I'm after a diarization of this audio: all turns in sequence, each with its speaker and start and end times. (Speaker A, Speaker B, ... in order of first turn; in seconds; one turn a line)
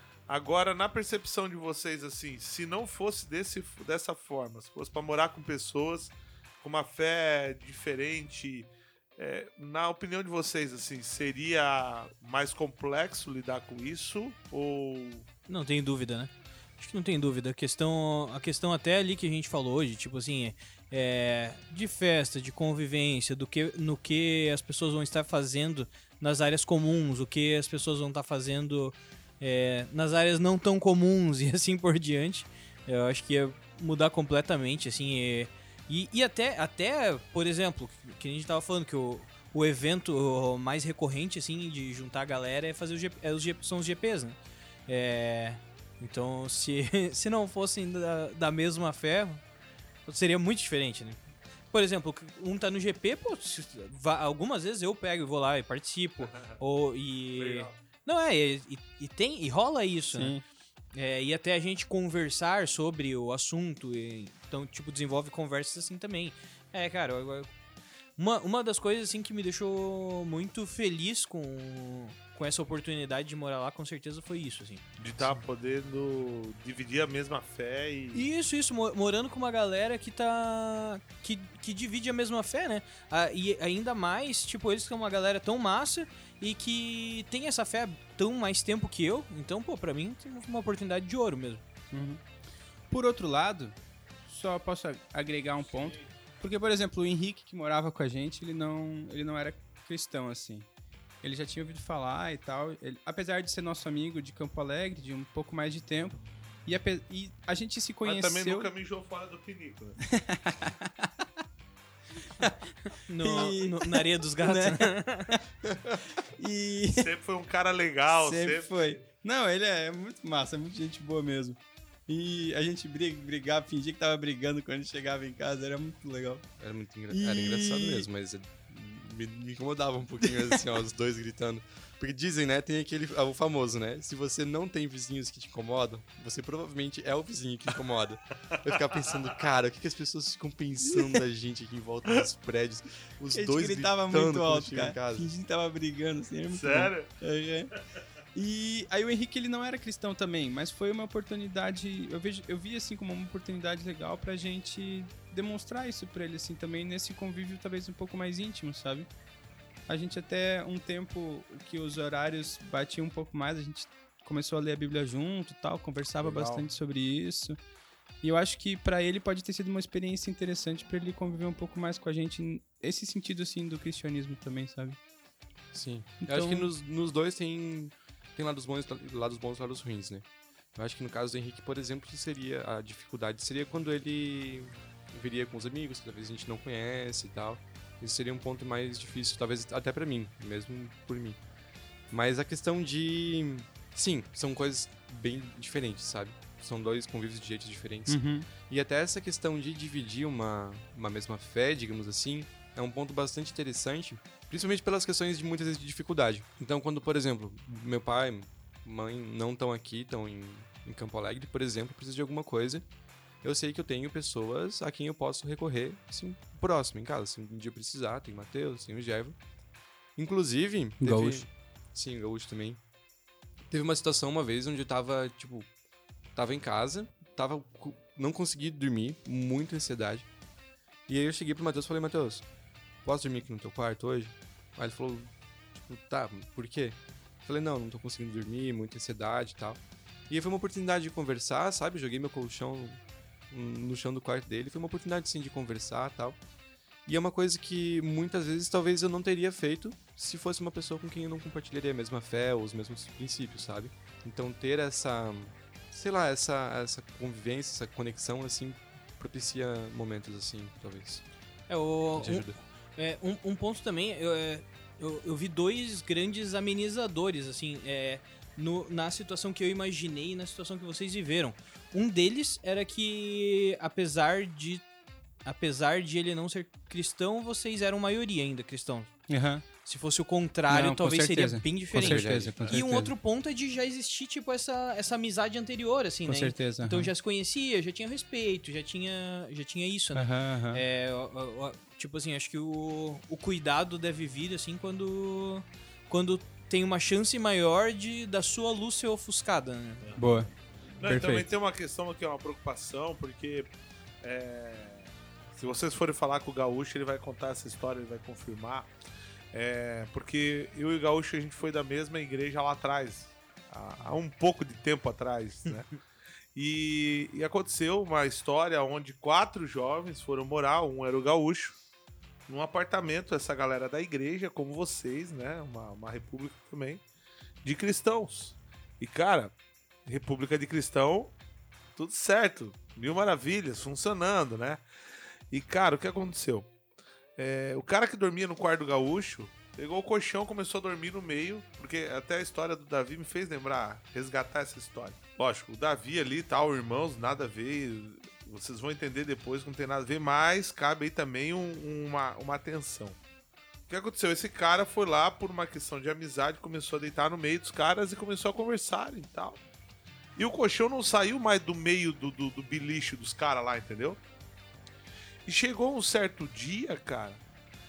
Speaker A: 0.3-15.3
Speaker B: 15.5-49.4
Speaker B: 50.0-51.2
Speaker B: 51.7-60.4
Speaker A: 57.3-57.8
Speaker C: 60.1-60.4
Speaker B: 60.9-67.5
Speaker B: 68.2-74.8
Speaker A: 75.0-78.2
Speaker B: 78.1-91.6
Speaker C: 91.9-92.2
Speaker C: 92.9-93.7
Speaker C: 94.2-100.7
Speaker A: 95.7-96.0
Speaker C: 101.2-108.7
Speaker A: 108.0-110.0
Speaker C: 110.0-111.1
Speaker B: 113.1-115.3
Speaker C: 113.2-115.4
Speaker C: 116.2-117.1
Speaker A: 116.9-119.0
Speaker C: 118.1-126.5
Speaker D: 126.6-145.3
Speaker C: 127.1-128.1
Speaker A: 138.7-139.1
Speaker C: 143.3-147.7
Speaker A: 146.5-147.1
Speaker C: 148.3-159.1
Speaker C: 159.9-167.6
Speaker A: 166.2-166.7
Speaker C: 168.2-175.0
Speaker D: 175.7-191.4
Speaker C: 176.2-176.7
Speaker D: 192.1-212.8
Speaker C: 198.1-198.5
Speaker D: 213.4-219.3
Speaker D: 220.2-222.8
Speaker C: 221.0-221.5
Speaker D: 223.7-225.7
Speaker D: 226.3-230.3
Speaker D: 231.1-232.4
Speaker D: 233.0-246.4
Speaker D: 247.1-261.2
Speaker B: 261.7-274.9
Speaker D: 262.2-262.6
Speaker B: 275.4-279.1
Speaker C: 279.3-279.6
Speaker B: 279.8-300.1
Speaker C: 280.7-283.1
Speaker D: 281.9-282.7
Speaker C: 286.2-287.1
Speaker C: 290.1-290.8
Speaker C: 300.2-300.5
Speaker A: 301.0-303.7
Speaker C: 301.0-301.5
Speaker A: 304.2-308.9
Speaker A: 309.5-316.0
Speaker A: 316.5-321.8
Speaker A: 322.5-327.0
Speaker A: 327.6-329.5
Speaker A: 330.1-331.3
Speaker A: 331.9-334.8
Speaker A: 335.5-336.7
Speaker A: 337.4-353.2
Speaker A: 353.9-359.6
Speaker A: 360.4-364.2
Speaker A: 365.4-367.4